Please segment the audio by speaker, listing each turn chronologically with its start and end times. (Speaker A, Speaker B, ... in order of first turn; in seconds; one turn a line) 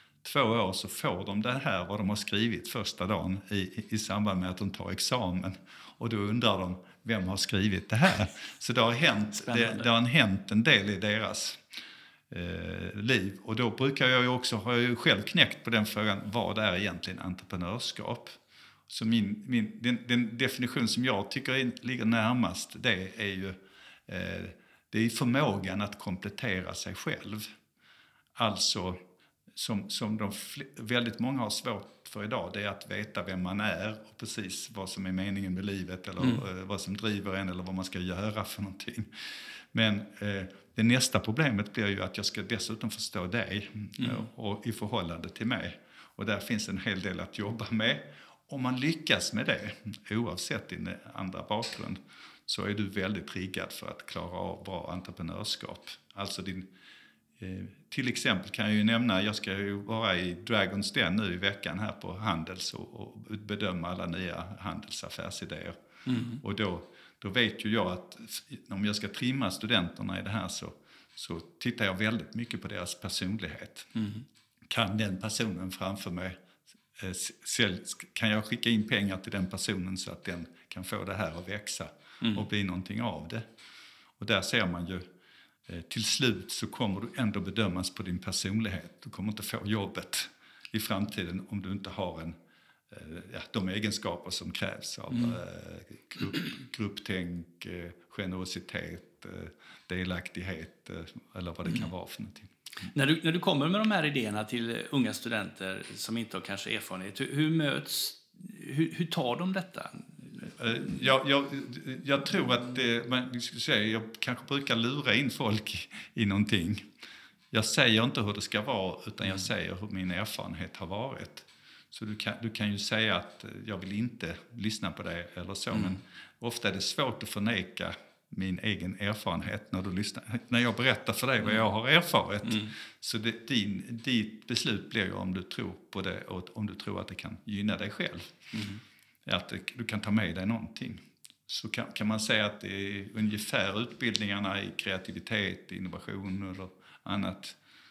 Speaker A: 0.2-11.6
Speaker B: 9.4-9.9
Speaker A: 12.3-18.4
Speaker A: 18.9-23.6
Speaker A: 24.1-27.5
Speaker A: 28.4-29.0
Speaker A: 29.6-39.1
Speaker A: 39.7-56.7
Speaker B: 44.0-44.3
Speaker A: 57.4-65.8
Speaker B: 66.1-66.4
Speaker A: 66.4-73.9
Speaker B: 74.0-74.2
Speaker A: 74.7-76.4
Speaker A: 77.0-83.5
Speaker A: 84.2-85.0
Speaker A: 85.7-92.4
Speaker A: 92.9-102.5
Speaker B: 102.9-110.4
Speaker A: 110.4-116.9
Speaker A: 117.5-138.4
Speaker B: 125.7-126.0
Speaker B: 132.4-132.7
Speaker B: 138.5-138.8
Speaker A: 139.3-147.6